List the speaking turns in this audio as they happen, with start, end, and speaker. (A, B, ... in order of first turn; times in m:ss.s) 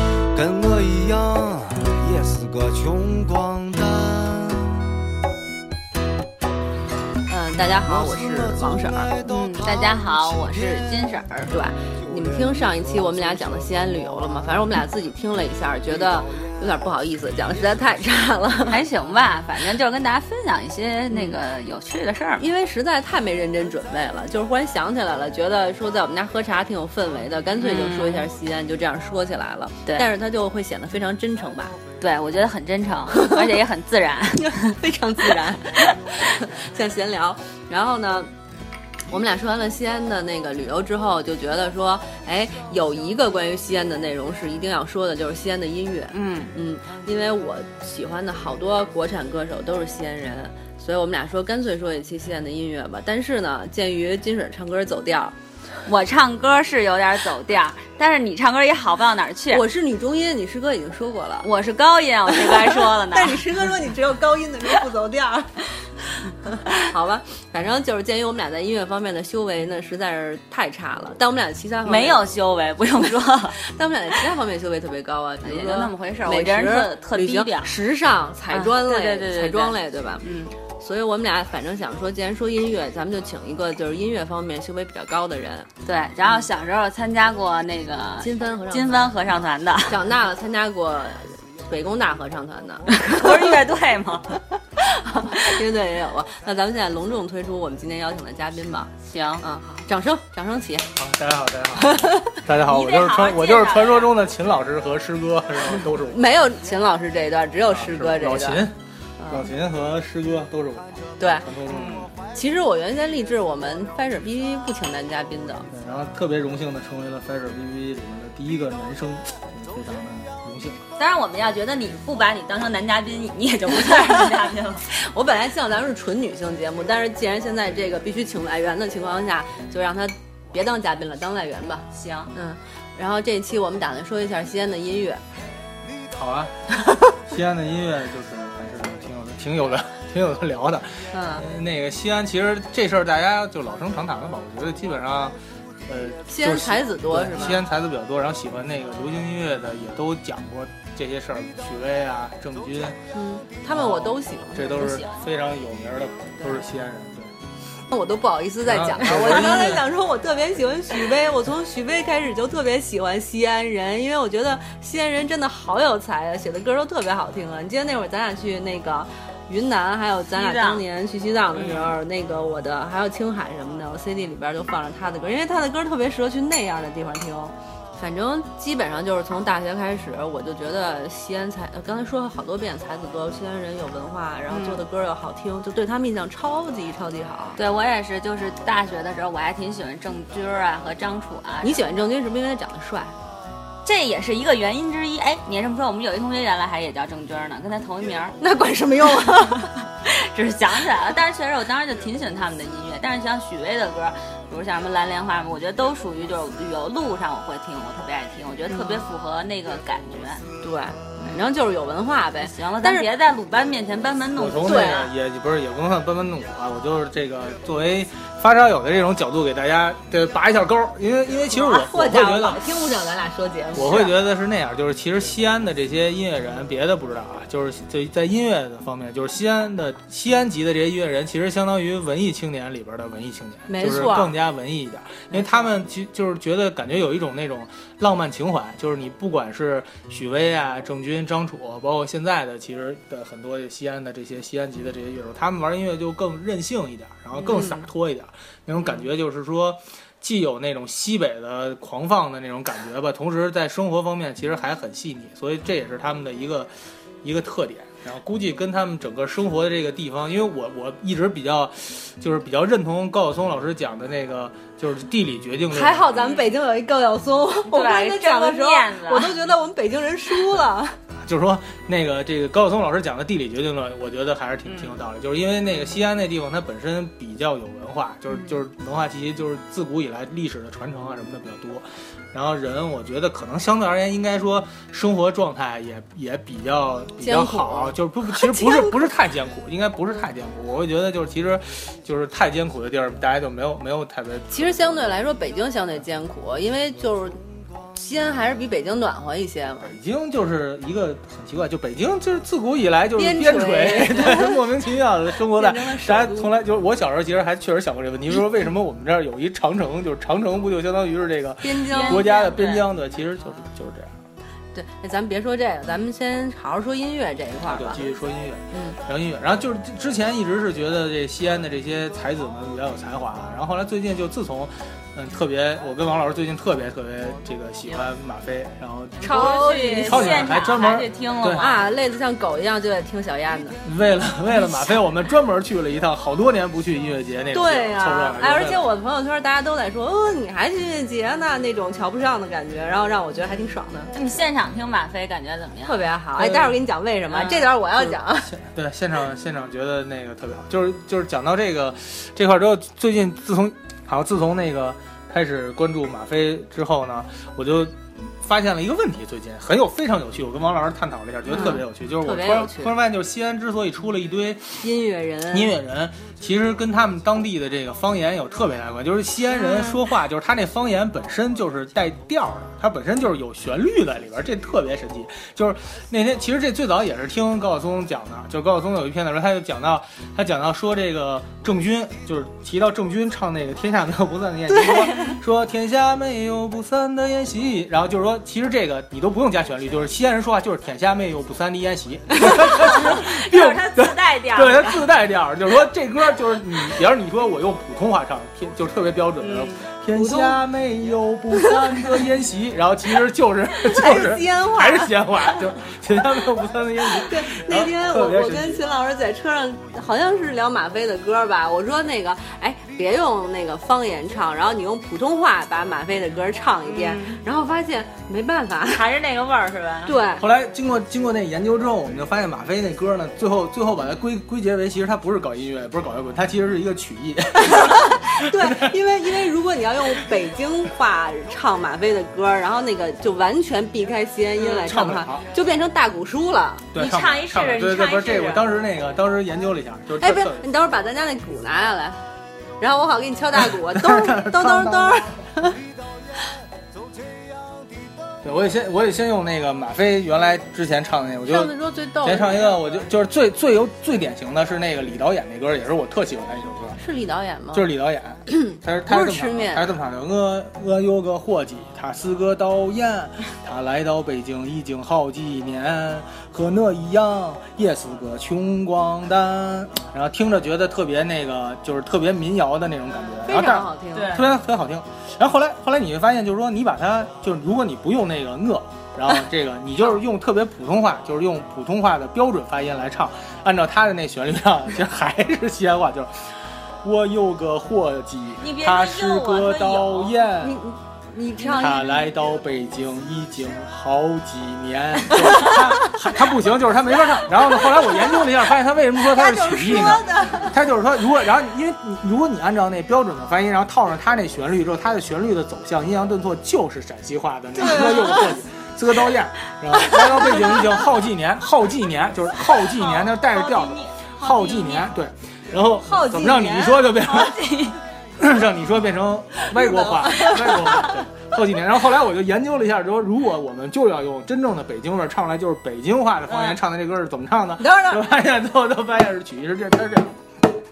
0:00.3-0:04.8 A
0:07.3-0:09.2 B
0:07.8-0:18.4 A
0:09.2-0:11.5 C
0:11.5-0:18.8 B
0:18.7-0:22.4 C
0:21.1-0:21.4 B
0:22.4-0:31.8 B
0:27.6-0:28.3 C
0:32.0-0:34.7 C
0:33.1-0:33.4 B
0:34.4-0:38.3 B
0:39.1-0:55.4 B
0:46.1-0:46.5 C
0:55.9-0:59.6 C
0:59.5-1:01.5 B
1:01.4-1:03.4 C
1:02.3-1:12.2 B
1:11.8-1:13.6 C
1:13.6-1:20.2 B
1:15.4-1:17.7 C
1:18.5-1:20.5 C
1:20.8-1:25.7 B
1:25.8-1:29.9 C
1:28.2-1:29.2 B
1:29.9-1:33.6 B
1:33.0-1:34.4 C
1:34.9-1:38.9 B
1:39.1-1:39.4 C
1:39.4-1:40.9 B
1:41.0-1:46.2 D
1:41.8-1:42.4 B
1:42.6-1:44.1 C
1:46.0-1:48.7 B
1:47.7-1:48.8 D
1:49.2-1:49.5 B
1:49.3-1:52.1 D
1:51.2-1:51.4 B
1:51.7-1:52.1 C
1:52.3-1:55.7 B
1:55.7-2:00.8 D
2:01.0-2:04.9 C
2:04.9-2:15.2 B
2:11.9-2:12.3 C
2:16.1-2:33.0 D
2:21.1-2:21.4 B
2:26.3-2:27.6 B
2:33.1-2:35.0 B
2:33.7-2:37.3 D
2:34.8-2:35.1 C
2:37.9-3:07.6 B
2:38.7-2:39.9 D
2:50.4-2:50.8 C
3:04.5-3:04.8 C
3:07.6-3:11.9 C
3:11.6-3:13.1 B
3:13.8-3:18.4 C
3:18.4-3:19.7 B
3:20.0-3:30.4 C
3:28.7-3:29.0 B
3:30.6-3:33.1 B
3:32.4-3:35.1 C
3:34.4-3:42.6 D
3:34.6-3:35.1 B
3:41.5-3:44.2 B
3:43.7-4:26.1 D
3:53.7-3:54.4 B
4:25.7-4:31.0 B
4:26.2-4:26.5 C
4:27.7-4:29.3 C
4:31.2-4:55.1 D
4:34.7-4:35.0 C
4:47.2-4:49.0 B
4:54.5-4:57.4 B
4:57.9-5:00.0 B
4:59.8-5:14.1 D
5:03.2-5:04.6 B
5:05.5-5:06.5 B
5:11.6-5:12.3 B
5:11.9-5:12.9 C
5:14.7-5:18.0 B
5:17.7-5:31.8 D
5:18.7-5:19.0 B
5:29.2-5:30.5 B
5:29.3-5:31.8 C
5:31.6-5:33.8 B
5:33.8-5:38.9 D
5:37.5-5:44.1 B
5:44.1-5:46.0 C
5:45.8-5:48.5 B
5:46.4-5:46.8 D
5:47.3-5:47.7 C
5:47.8-6:04.9 D
6:01.5-6:03.0 B
6:01.5-6:01.8 C
6:04.8-6:05.8 B
6:05.5-6:48.8 D
6:33.1-6:35.1 C
6:39.4-6:39.8 C
6:40.1-6:40.6 B
6:43.9-6:45.1 B
6:47.2-6:59.0 B
6:56.9-6:57.4 C
6:58.9-7:00.1 C
7:00.1-7:00.4 B
7:00.4-7:09.0 D
7:07.6-7:16.9 B
7:14.6-7:15.5 D
7:16.9-7:20.6 D
7:17.0-7:18.7 C
7:20.2-7:22.2 B
7:22.8-7:25.8 B
7:23.6-7:25.3 D
7:28.4-7:37.0 D
7:31.5-7:33.0 B
7:37.0-7:37.9 B
7:37.7-8:10.8 D
7:38.5-7:39.9 B
7:53.5-7:54.4 B
7:54.2-7:54.5 C
8:08.6-8:10.4 C
8:10.6-8:12.2 B
8:11.6-8:37.6 D
8:19.3-8:20.8 B
8:27.8-8:28.5 B
8:30.3-8:30.9 B
8:32.9-8:35.2 C
8:36.0-8:37.1 B
8:37.2-8:38.0 C
8:38.4-8:50.4 D
8:39.7-8:41.2 B
8:46.5-8:46.8 C
8:47.8-8:48.2 B